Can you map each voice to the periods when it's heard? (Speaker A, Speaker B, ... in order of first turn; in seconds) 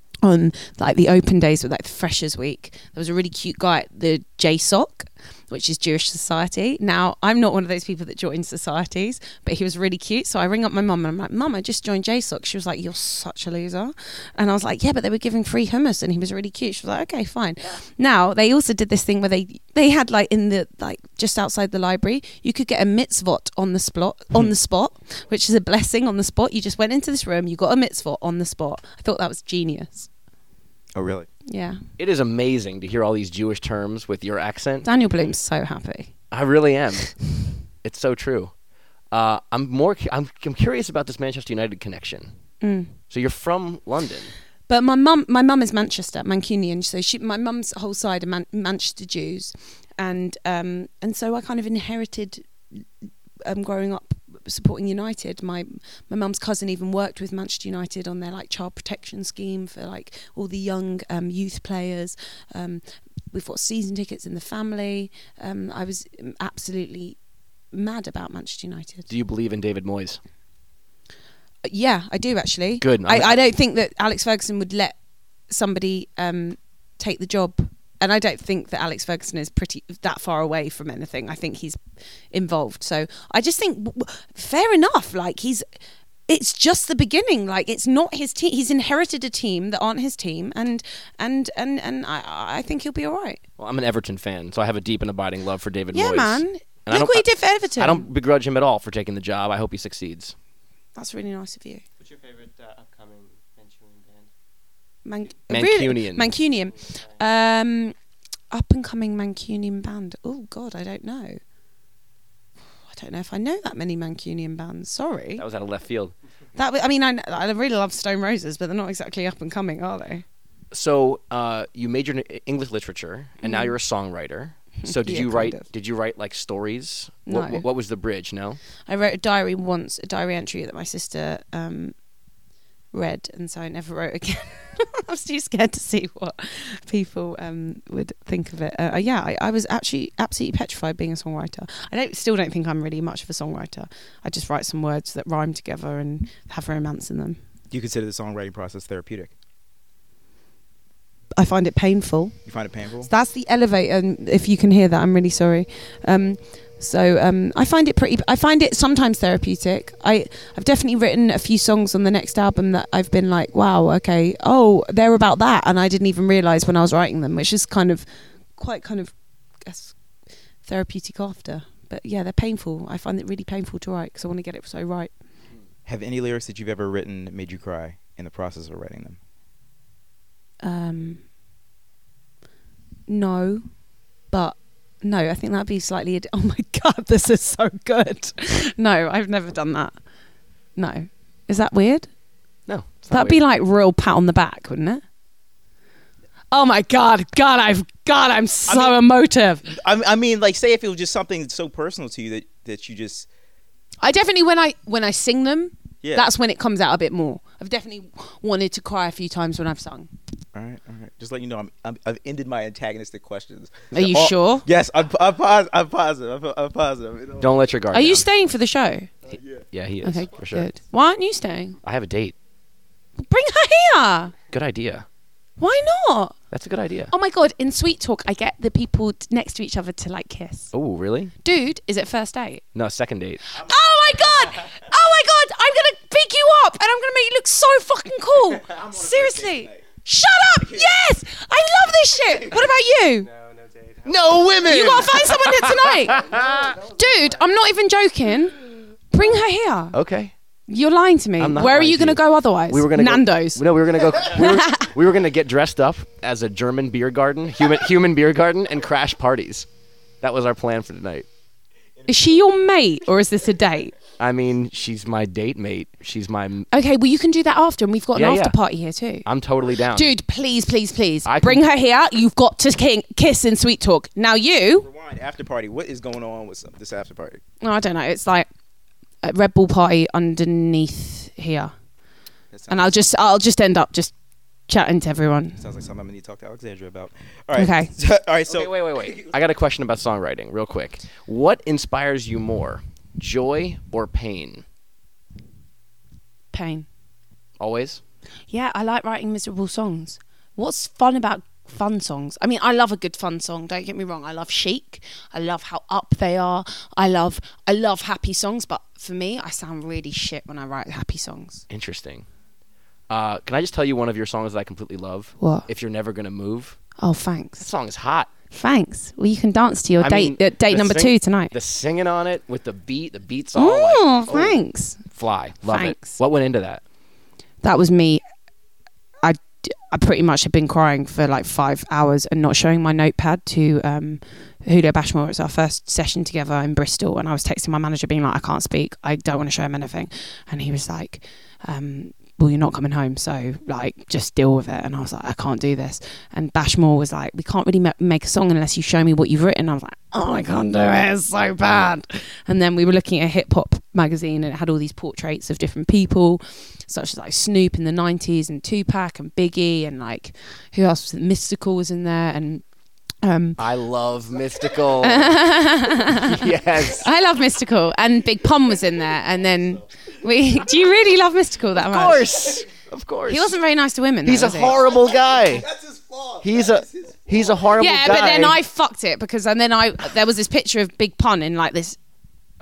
Speaker A: 0.2-30.1, 31.5-31.8, 34.8-36.1, 42.6-42.9, 44.7-52.8, 53.4-67.2, 67.7-69.1, 71.6-75.0, 75.5-81.8, 82.3-85.7, 86.3-93.4, 95.9-98.1, 101.0-101.8, 105.0-108.0, 108.5-111.4, 112.9-115.4, 116.6-120.2, 123.4-123.7, 124.8-125.7, 127.3-127.6, 128.9-131.9, 132.9-147.4, 151.3-152.4, 153.1-170.0, 170.7-175.1, 180.6-181.2, 183.1-183.7, 184.3-189.9, 190.8-192.1, 193.1-195.0, 196.5-199.7, 204.0-210.1, 213.9-214.7, 217.9-219.3, 220.0-221.8, 223.2-224.3, 225.6-226.4, 227.1-230.7, 231.4-232.6, 233.5-243.3, 244.6-246.2, 247.0-249.9, 250.7-253.7, 254.2-254.9, 262.1-263.9, 266.7-269.3, 269.9-274.9, 277.6-278.5, 279.2-281.7, 282.7-284.1, 284.7-285.6, 287.6-287.9, 296.5-296.9, 298.5-311.6, 315.4-315.7, 317.0-317.7, 318.5-321.5, 323.6-325.1, 325.7-326.2, 327.6-328.2, 329.2-362.6, 363.2-363.6, 365.0-372.6, 373.3-374.8, 377.8-382.0
Speaker B: 30.9-31.3, 147.7-149.3, 152.5-153.1, 175.9-179.2, 198.7-199.0, 199.7-203.3, 206.0-206.3, 210.5-217.5, 219.3-219.6, 233.6-234.3, 238.6-239.8, 240.6-241.0, 244.7-244.9, 262.0-262.4, 274.8-277.4, 282.5-283.0, 285.6-289.3, 374.7-377.7
Speaker C: 32.0-34.9, 36.3-37.3, 37.8-38.5, 39.1-42.3, 43.1-44.3, 69.1-70.2, 72.8-73.4, 93.6-100.3, 105.5-106.3, 115.4-116.2, 120.7-128.6, 192.7-193.4, 217.4-218.3, 219.7-220.7, 221.8-222.3, 224.5-225.1, 226.5-227.1, 230.7-231.3, 232.7-233.4, 244.1-246.7, 249.9-250.3, 251.4-259.7, 260.2-261.3, 264.2-266.7, 268.1-268.6, 269.3-270.1, 271.3-271.6, 288.5-294.6, 297.6-298.0, 311.7-312.3, 313.1-316.8, 317.6-318.3, 320.0-326.8, 363.6-365.5, 366.0-367.1, 371.8-373.6, 374.2-375.7, 376.4-378.6
Speaker D: 102.0-104.3, 106.7-107.2, 243.2-245.0, 245.8-247.5